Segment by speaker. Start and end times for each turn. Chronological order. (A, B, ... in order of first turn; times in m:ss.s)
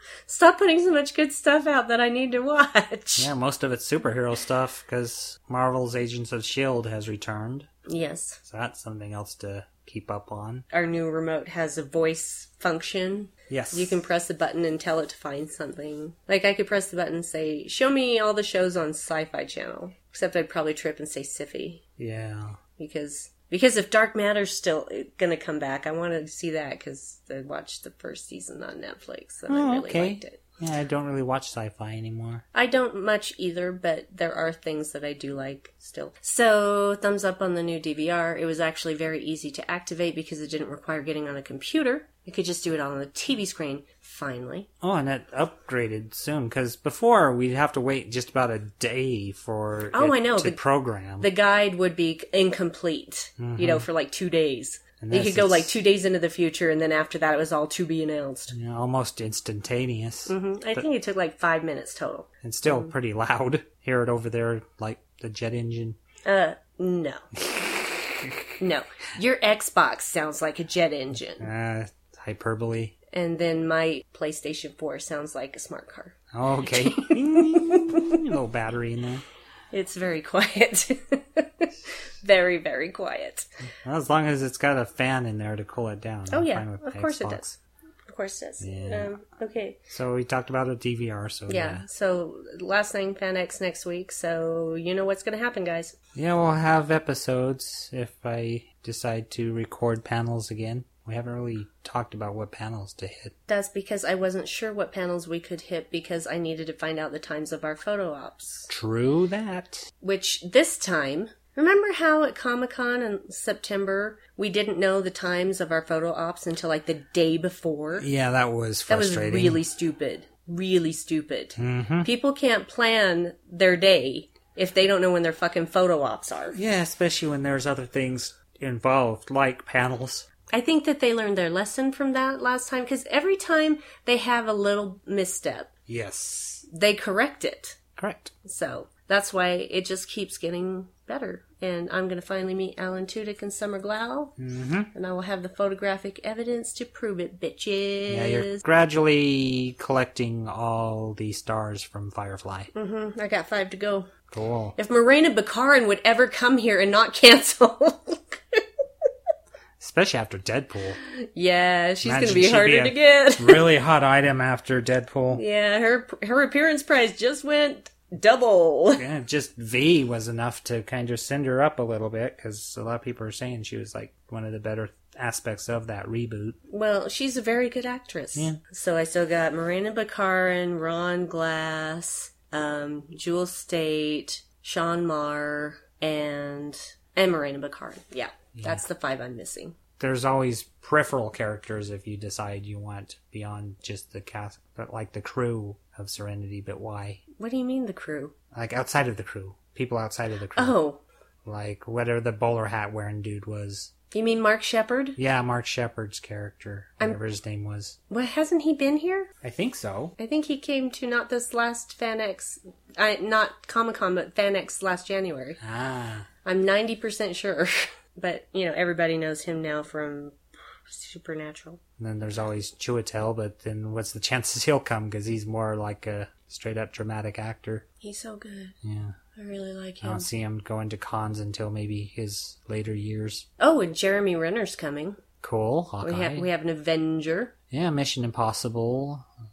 0:00.3-0:03.3 A
0:03.2-0:07.7 B
0:07.9-0:08.4 A
0:08.4-0:10.6 B
0:10.7-0:21.8 A
0:13.5-0:14.0 B
0:22.0-0:22.6 B
0:22.8-0:30.4 A
0:29.5-0:32.4 B
0:32.5-0:44.7 A
0:44.8-0:51.3 B
0:49.9-0:50.6 A
0:51.2-0:58.5 A
0:53.4-0:53.9 B
0:55.0-0:55.7 B
0:58.5-1:00.8 B
1:00.3-1:02.9 A
1:02.4-1:06.0 B
1:06.2-1:07.2 A
1:08.2-1:08.6 B
1:08.6-1:11.5 A
1:11.4-1:13.0 B
1:13.1-1:18.2 A
1:16.3-1:19.2 B
1:19.7-1:23.5 A
1:23.8-1:27.6 B
1:26.3-1:27.4 A
1:28.1-1:29.8 A
1:28.6-1:29.2 B
1:29.9-1:31.8 B
1:31.5-1:36.0 A
1:36.2-1:43.3 B
1:43.5-1:48.7 A
1:48.7-1:49.9 B
1:50.0-1:58.1 A
1:58.0-1:59.6 B
1:58.9-2:06.6 A
2:01.6-2:02.1 B
2:06.5-2:10.3 B
2:10.5-2:15.7 A
2:15.9-2:16.6 B
2:16.7-2:17.8 A
2:18.0-2:18.3 B
2:18.4-2:24.3 A
2:24.4-2:24.9 B
2:24.9-2:28.6 A
2:28.1-2:32.7 B
2:32.7-2:34.1 A
2:34.3-2:34.8 B
2:34.8-2:38.6 A
2:39.8-2:41.0 B
2:41.2-2:43.7 A
2:42.0-2:45.4 B
2:45.3-2:49.0 A
2:49.0-2:56.6 B
2:56.7-3:09.8 A
2:58.4-2:58.6 B
3:08.6-3:08.8 B
3:10.0-3:17.2 B
3:17.4-3:18.4 A
3:18.5-3:20.8 B
3:20.6-3:21.0 A
3:21.5-3:23.9 B
3:24.1-3:25.2 A
3:25.2-3:28.0 B
3:28.1-3:29.3 A
3:29.4-3:30.2 B
3:30.2-3:35.6 A
3:35.6-3:36.3 B
3:36.4-3:41.8 A
3:42.0-3:47.8 B
3:48.0-3:48.8 A
3:48.8-3:49.2 B
3:49.4-3:50.3 A
3:50.0-3:53.5 B
3:53.6-3:55.2 A
3:55.4-3:56.5 B
3:56.0-3:57.5 A
3:57.7-3:59.3 B